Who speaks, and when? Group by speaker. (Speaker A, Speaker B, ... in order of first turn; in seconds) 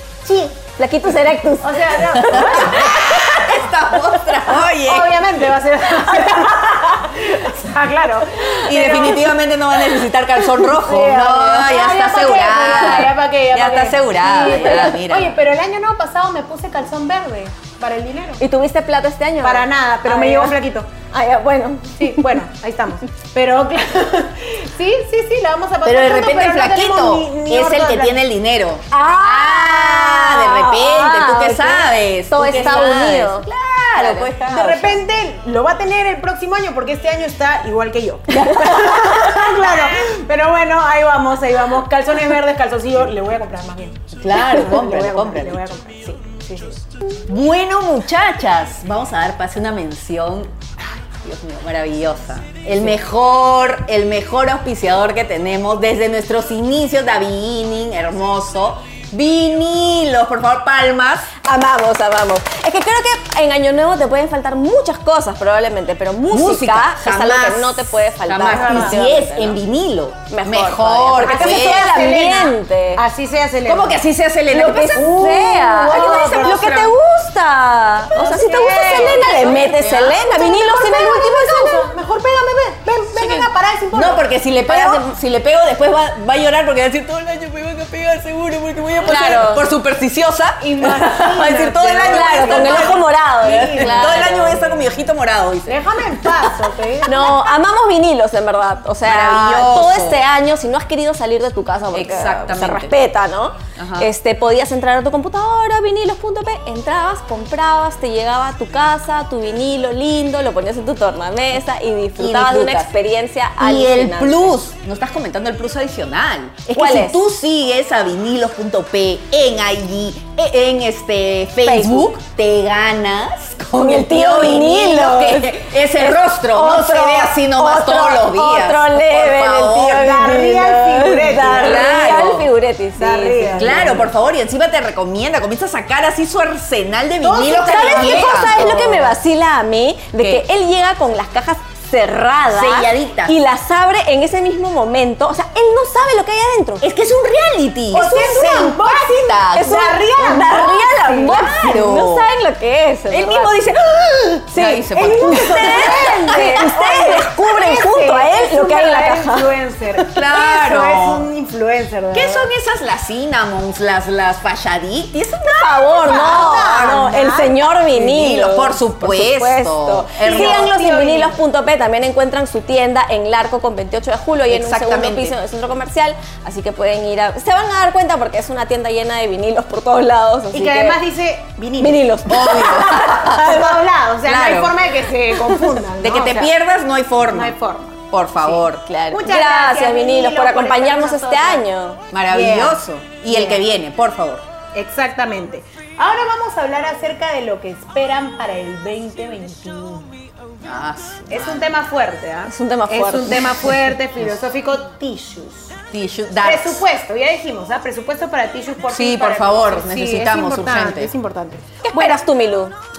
Speaker A: 0.2-0.6, 1.6-3.6, 4.5-9.3, 11.2-18.4, 19.4-20.9, 22.0-28.2, 34.4-46.8, 68.5-69.0, 71.2-74.0, 75.0-76.7, 78.2-84.2, 90.6-94.6, 95.7-97.5, 129.7-132.1, 133.0-134.1, 137.2-139.0, 147.9-151.8, 154.9-162.5, 166.0-167.6, 170.2-171.4, 180.5-182.3, 183.0-186.5, 187.3-191.6, 192.3-193.6, 194.7-200.1, 201.3-205.8, 206.4-212.2
Speaker B: 0.8-3.1, 10.7-11.7, 14.2-14.9, 18.4-20.6, 21.1-22.2, 28.9-33.5, 34.0-34.2, 38.3-39.5, 61.4-69.6, 70.3-73.0, 74.5-81.9, 84.7-85.0, 89.0-89.6, 92.1-94.7, 97.0-114.5, 116.7-117.2, 121.6-122.1, 123.7-133.8, 137.6-146.8, 149.5-153.6, 154.5-159.5, 165.6-181.0, 181.8-183.8, 188.8-192.0, 202.5-203.7, 211.8-212.7
Speaker C: 2.1-5.3, 8.6-15.3, 25.8-35.0, 44.1-45.6, 47.2-61.3, 66.3-72.1, 73.7-76.9, 78.8-80.2, 83.2-96.5, 99.0-100.2, 101.9-102.9, 103.8-104.1, 112.2-112.9, 113.6-130.1, 131.6-132.5, 133.5-139.1, 140.2-140.4, 142.5-143.4, 146.8-149.8, 151.3-152.3, 153.1-156.5, 160.1-161.2, 162.1-167.0, 167.9-170.7, 174.5-175.3, 182.3-183.6, 184.2-184.8, 186.0-187.6, 188.1-188.8, 192.1-194.4, 200.6-201.7, 205.9-206.8, 208.9-211.1